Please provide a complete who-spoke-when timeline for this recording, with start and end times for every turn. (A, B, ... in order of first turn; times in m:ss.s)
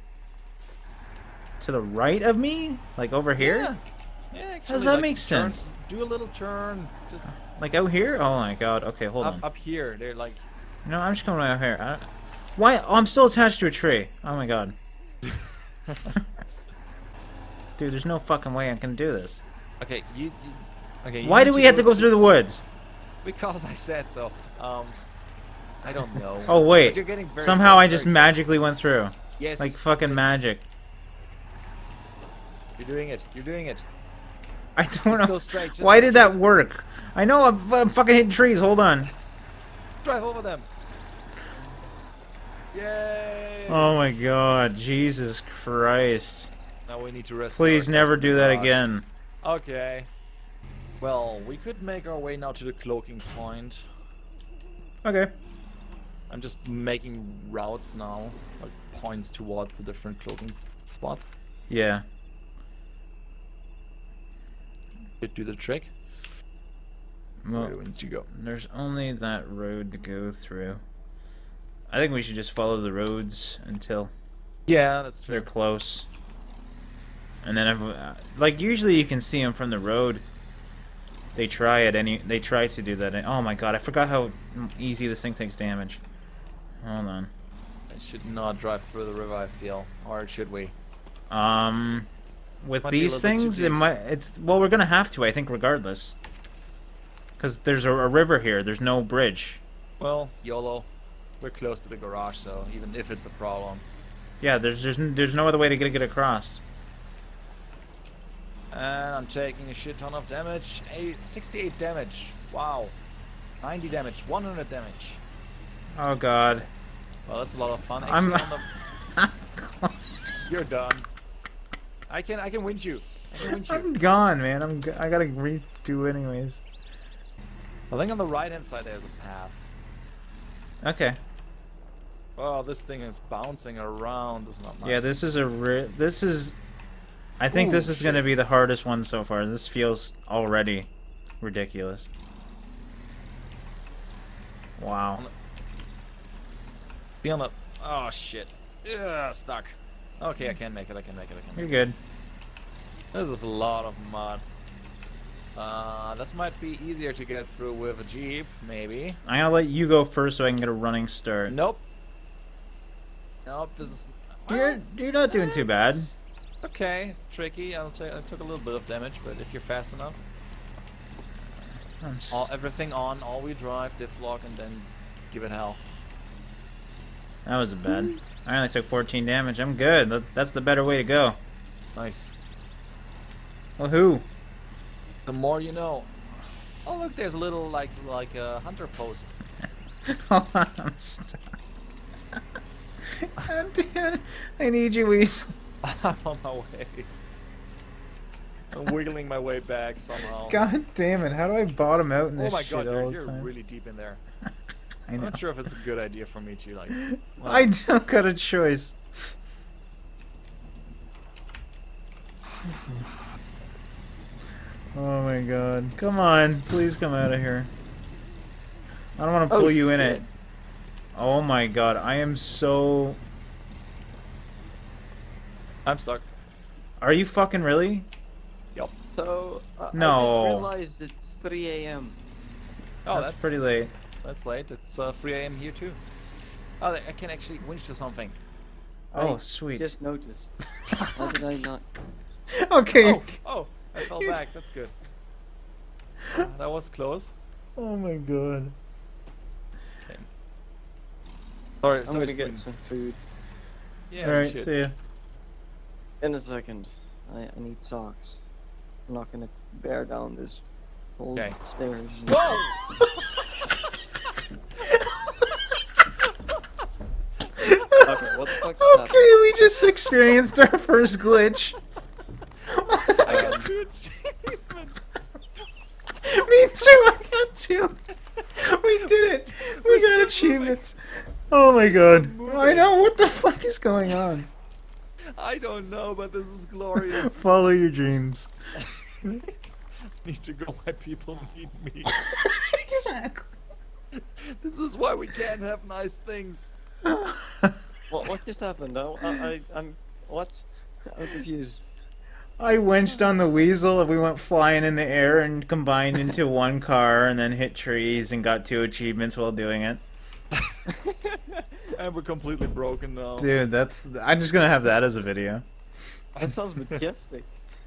0:01.6-0:03.7 A
0:03.4-0:07.3 B
0:04.7-0:05.6 A
0:07.5-0:09.4 A
0:09.2-0:10.4 B
0:10.8-0:14.8 A
0:15.3-0:16.1 B
0:17.8-0:19.4 A
0:19.8-0:22.3 B
0:21.2-0:22.6 A
0:23.2-0:25.0 B
0:25.8-0:28.4 B
0:26.5-0:30.6 A
0:29.4-0:30.3 B
0:32.8-0:33.9 B
0:34.8-0:39.1 A
0:35.1-0:36.6 B
0:40.0-0:40.7 B
0:42.7-0:44.0 B
0:43.7-0:46.5 A
0:46.9-0:48.8 B
0:47.6-0:49.1 A
0:49.4-0:50.1 B
0:51.0-0:53.8 B
0:55.0-0:55.3 A
0:56.3-1:01.3 B
1:01.7-1:02.0 A
1:05.2-1:05.9 B
1:07.4-1:07.8 A
1:07.5-1:08.3 B
1:08.3-1:10.8 A
1:11.9-1:14.1 A
1:14.7-1:15.5 B
1:15.3-1:16.1 A
1:17.4-1:20.2 A
1:21.4-1:26.0 A
1:26.8-1:27.3 A
1:27.9-1:30.8 B
1:31.3-1:32.1 A
1:32.6-1:36.2 A
1:32.8-1:33.8 B
1:37.4-1:39.6 A
1:40.0-1:40.9 B
1:41.4-1:43.8 B
1:44.4-1:46.6 A
1:48.7-1:53.0 B
1:53.6-1:55.2 B
1:56.0-1:56.7 A
1:57.3-1:58.7 B
1:58.0-2:00.0 A
2:00.5-2:01.1 B
2:02.1-2:04.0 B
2:03.4-2:06.6 A
2:07.9-2:09.6 B
2:10.8-2:11.2 A
2:12.4-2:15.2 B
2:14.8-2:16.6 A
2:17.4-2:20.9 A
2:17.5-2:18.3 B
2:21.4-2:22.1 A
2:24.8-2:25.2 A
2:27.2-2:31.8 B
2:31.6-2:32.0 A
2:33.1-2:34.4 B
2:35.6-2:39.2 B
2:39.3-2:41.5 A
2:41.5-2:41.8 B
2:43.5-2:50.2 B
2:44.5-2:46.1 A
2:52.0-2:52.5 A
2:52.3-2:55.8 B
2:57.5-3:01.4 A
3:02.0-3:02.3 B
3:03.8-3:04.2 A
3:05.3-3:06.2 B
3:06.8-3:09.4 B
3:10.1-3:11.4 A
3:13.1-3:15.5 A
3:15.8-3:17.1 B
3:18.7-3:20.6 B
3:20.5-3:23.5 A
3:22.4-3:24.2 B
3:25.1-3:25.4 A
3:25.2-3:27.7 B
3:27.0-3:29.0 A
3:34.9-3:37.7 A
3:39.2-3:40.3 A
3:39.5-3:40.2 C
3:41.2-3:43.2 A
3:45.8-3:46.3 B
3:47.0-3:48.1 A
3:49.2-3:52.2 C
3:49.9-3:50.7 A
3:53.1-3:53.5 B
3:53.1-3:53.9 A
3:54.2-3:56.0 B
3:56.8-3:58.4 B
3:59.1-4:00.0 A
3:59.2-4:00.6 C
4:01.2-4:01.9 C
4:02.5-4:03.4 A
4:03.0-4:04.9 B
4:04.0-4:04.4 A
4:06.3-4:07.3 B
4:07.8-4:08.8 A
4:11.8-4:12.6 B
4:12.1-4:13.2 C
4:14.1-4:14.7 B
4:14.2-4:15.0 A
4:16.2-4:18.4 C
4:19.1-4:20.6 C
4:21.2-4:22.6 C
4:22.3-4:22.8 B
4:27.6-4:31.8 A
4:28.0-4:29.2 C
4:32.7-4:33.6 A
4:33.2-4:35.1 B
4:33.3-4:33.7 C
4:36.2-4:38.0 A
4:38.6-4:44.5 A
4:39.0-4:40.8 B
4:41.8-4:43.0 B
4:45.3-4:47.4 B
4:47.0-4:48.5 A
4:48.8-4:49.5 B
4:50.2-4:52.2 B
4:52.1-4:53.5 A
4:54.1-4:56.7 B
4:57.0-4:57.8 A
4:58.1-5:01.8 C
5:02.6-5:10.0 A
5:10.6-5:10.8 B
5:11.0-5:11.6 C
5:11.9-5:13.5 B
5:13.4-5:15.6 A
5:16.4-5:17.5 C